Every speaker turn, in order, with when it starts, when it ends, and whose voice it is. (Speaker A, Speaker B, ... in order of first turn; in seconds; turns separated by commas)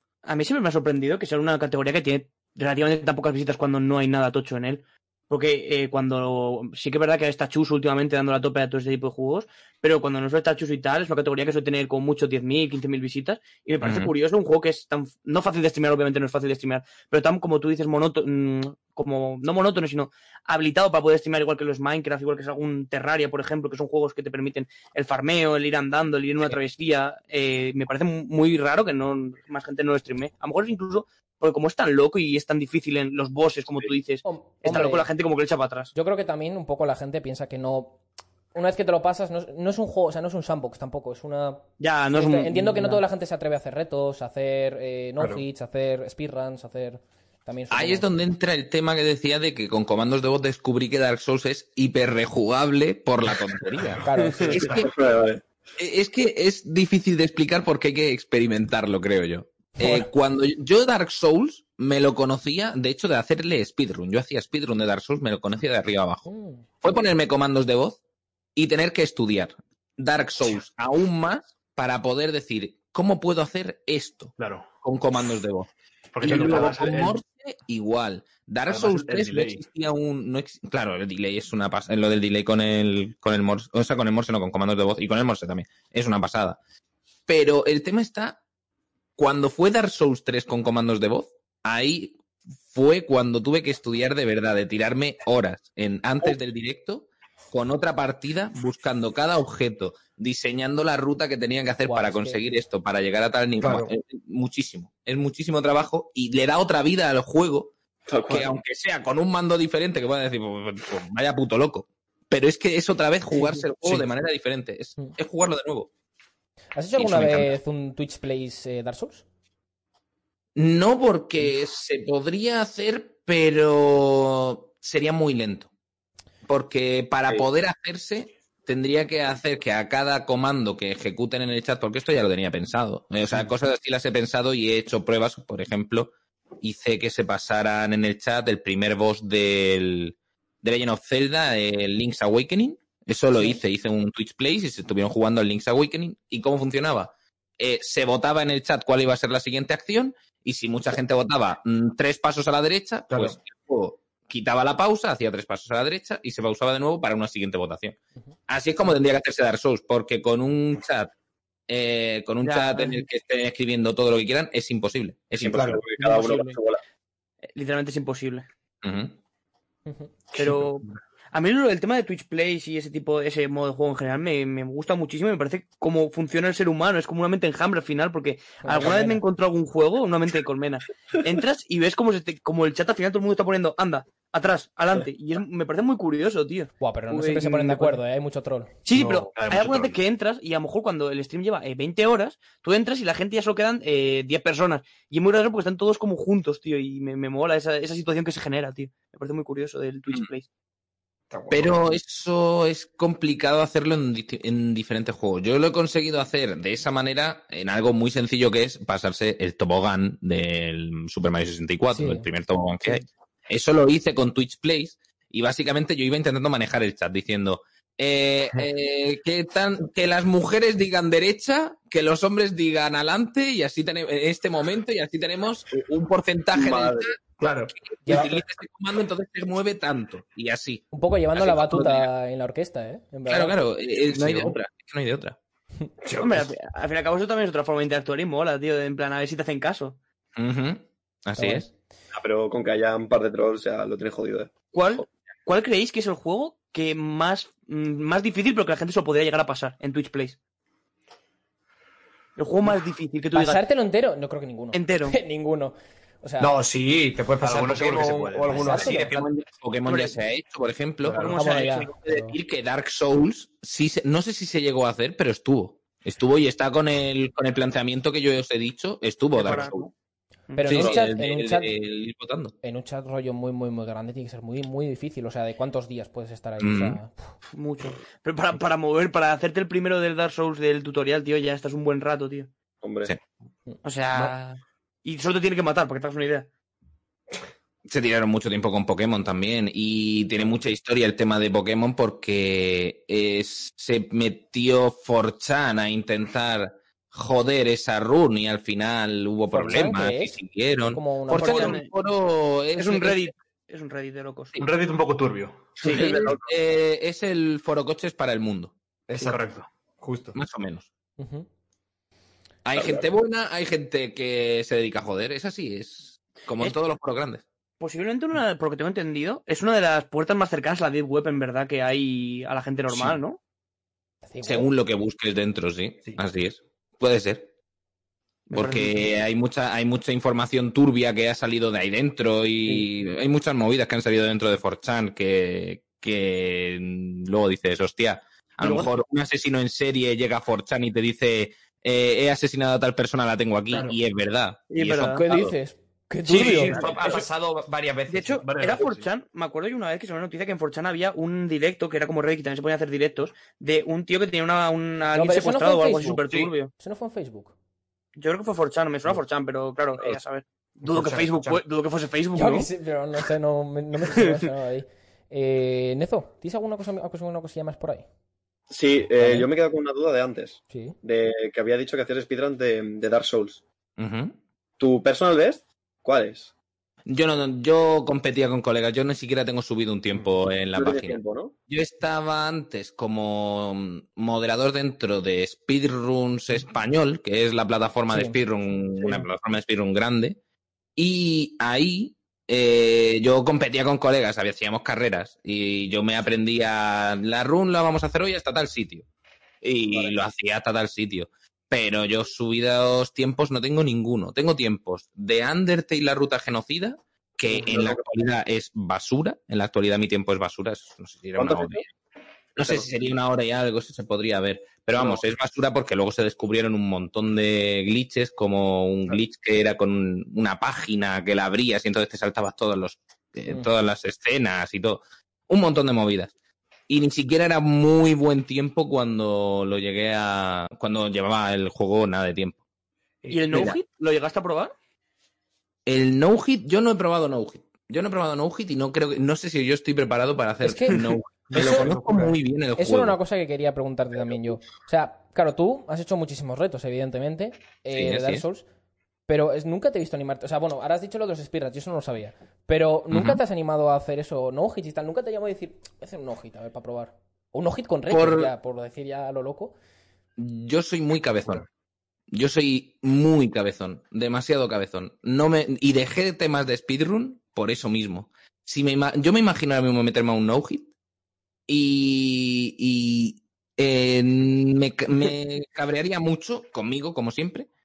Speaker A: 0.2-35.9, Speaker B: 13.8-14.1, Speaker C: 34.2-35.1, Speaker C: 35.9-38.0, Speaker C: 38.5-48.1, Speaker A: 41.8-43.0, Speaker D: 45.2-45.4, Speaker B: 47.7-55.0, Speaker C: 54.0-54.7, Speaker D: 54.2-54.7, Speaker E: 54.6-55.4, Speaker B: 55.8-66.3, Speaker C: 66.3-66.6, Speaker B: 66.8-68.0, Speaker B: 68.5-86.6, Speaker F: 74.4-74.7, Speaker F: 76.1-77.2, Speaker D: 76.3-76.8, Speaker F: 78.7-79.6, Speaker B: 87.3-88.4, Speaker B: 89.2-92.2, Speaker B: 92.7-107.7, Speaker C: 101.8-102.4, Speaker D: 103.6-103.9, Speaker E: 108.1-108.5, Speaker B: 108.3-115.9, Speaker C: 116.8-119.2, Speaker B: 117.0-117.5, Speaker B: 120.6-125.7, Speaker B: 126.5-158.0, Speaker B: 158.5-161.1, Speaker B: 161.7-165.8, Speaker A: 162.4-163.0, Speaker E: 165.4-166.8, Speaker D: 165.5-165.8, Speaker A: 166.0-166.6, Speaker A: 167.6-168.5, Speaker B: 168.8-169.2, Speaker C: 169.9-170.1, Speaker A: 170.3-188.0, Speaker C: 178.6-179.2, Speaker C: 186.8-188.7, Speaker A: 188.8-200.5, Speaker D: 188.9-189.3, Speaker F: 189.0-190.0, Speaker D: 201.3-201.8, Speaker B: 201.5-227.2, Speaker C: 211.9-212.2, Speaker E: 226.5-227.1, Speaker D: 227.4-227.7, Speaker B: 227.8-230.8, Speaker C: 230.9-233.6, Speaker B: 231.3-232.1, Speaker B: 233.3-235.4, Speaker D: 236.0-236.5, Speaker A: 236.2-240.0, Speaker B: 240.4-241.7, Speaker C: 241.4-241.7, Speaker E: 242.1-244.5, Speaker A: 244.7-250.4, Speaker A: 252.4-253.6, Speaker C: 253.3-256.5, Speaker A: 254.7-255.2, Speaker D: 256.4-259.3, Speaker F: 257.4-258.7, Speaker C: 258.4-259.1, Speaker B: 258.8-269.9, Speaker A: 259.9-260.1, Speaker A: 261.1-261.9, Speaker C: 261.2-262.4, Speaker A: 269.4-269.9, Speaker A: 270.5-270.9, Speaker C: 270.5-271.7, Speaker B: 270.6-272.5, Speaker C: 272.6-277.3, Speaker B: 276.6-277.0, Speaker A: 277.5-282.5, Speaker E: 282.8-283.1, Speaker A: 283.8-286.5, Speaker B: 287.9-303.3, Speaker C: 299.5-300.4, Speaker C: 300.9-301.8, Speaker A: 301.3-301.9, Speaker A: 302.8-304.6, Speaker F: 304.6-306.0, Speaker E: 305.8-306.4, Speaker B: 305.9-308.7, Speaker D: 309.1-310.4, Speaker F: 309.2-309.7, Speaker B: 310.3-310.9, Speaker C: 311.2-311.5, Speaker B: 312.6-317.4, Speaker E: 312.7-313.1, Speaker A: 317.8-323.4, Speaker B: 322.9-323.2, Speaker C: 324.2-324.7, Speaker B: 324.4-327.5, Speaker A: 328.5-329.0, Speaker B: 328.6-345.5, Speaker A: 338.6-339.0, Speaker D: 343.7-343.9, Speaker A: 344.7-345.2, Speaker C: 345.1-346.8, Speaker A: 346.3-347.3, Speaker D: 346.3-348.5, Speaker A: 348.1-356.7, Speaker F: 348.4-349.1, Speaker C: 355.1-357.5, Speaker A: 358.2-362.7, Speaker D: 360.9-361.6, Speaker C: 362.4-368.1, Speaker E: 368.7-373.6, Speaker C: 369.2-369.5, Speaker C: 370.7-371.0, Speaker B: 374.0-374.4, Speaker E: 374.8-376.5, Speaker B: 377.1-390.4, Speaker E: 380.8-381.5, Speaker C: 388.1-388.4, Speaker B: 391.0-399.1, Speaker B: 399.6-411.9, Speaker E: 407.6-407.9, Speaker E: 411.4-411.7, Speaker B: 412.6-426.3, Speaker B: 426.9-432.6, Speaker D: 433.2-433.8, Speaker A: 433.3-434.7, Speaker B: 433.5-433.8, Speaker B: 435.9-443.2, Speaker C: 440.6-441.9, Speaker D: 441.5-442.3, Speaker C: 442.8-448.6, Speaker B: 447.9-448.5, Speaker C: 449.3-459.8, Speaker B: 453.1-453.4, Speaker B: 458.1-458.5, Speaker B: 460.4-461.6, Speaker B: 462.3-470.9, Speaker B: 471.7-477.7